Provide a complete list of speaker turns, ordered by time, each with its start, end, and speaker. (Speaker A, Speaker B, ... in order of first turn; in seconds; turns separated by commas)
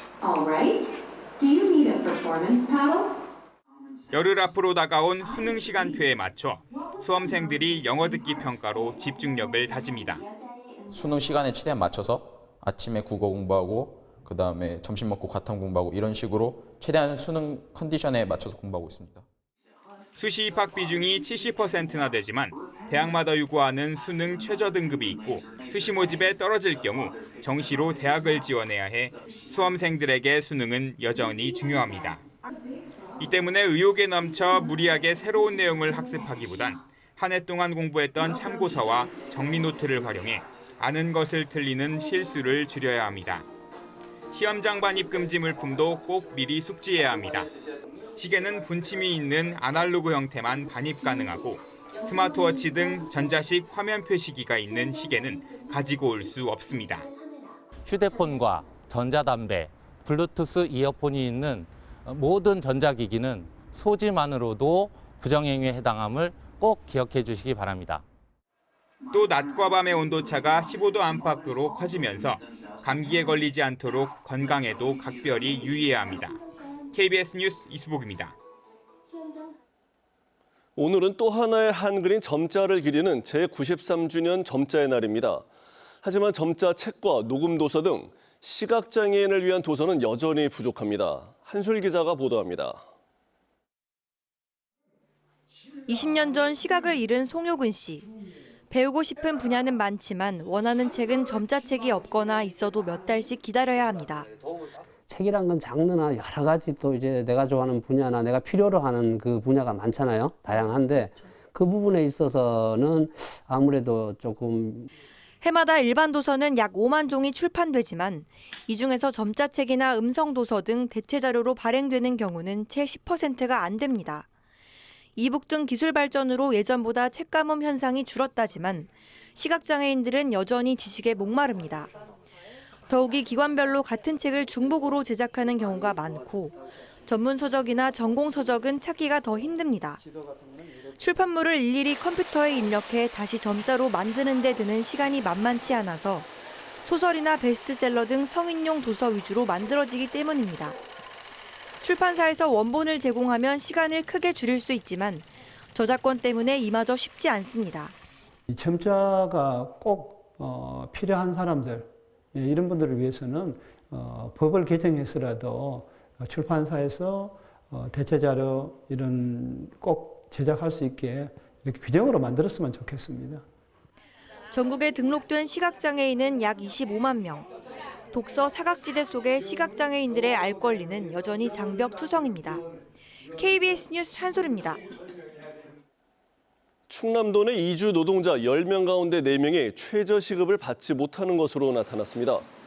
Speaker A: 0.2-0.8, Speaker A: 1.4-3.1, Speaker A: 4.1-10.2, Speaker B: 10.9-19.2, Speaker A: 20.2-32.2, Speaker A: 33.2-43.5, Speaker A: 44.3-47.5, Speaker A: 48.2-57.1, Speaker C: 57.8-68.0, Speaker A: 69.1-76.4, Speaker A: 76.9-78.4, Speaker D: 80.8-85.5, Speaker D: 86.0-92.8, Speaker E: 95.9-98.0, Speaker E: 98.7-104.3, Speaker F: 105.1-114.9, Speaker E: 115.4-124.3, Speaker E: 125.2-131.9, Speaker E: 132.9-140.0, Speaker E: 141.0-146.3, Speaker E: 146.8-150.8, Speaker E: 151.8-157.9, Speaker G: 158.5-173.4, Speaker E: 174.5-177.5, Speaker E: 178.1-182.6, Speaker E: 183.3-184.8, Speaker D: 186.9-192.5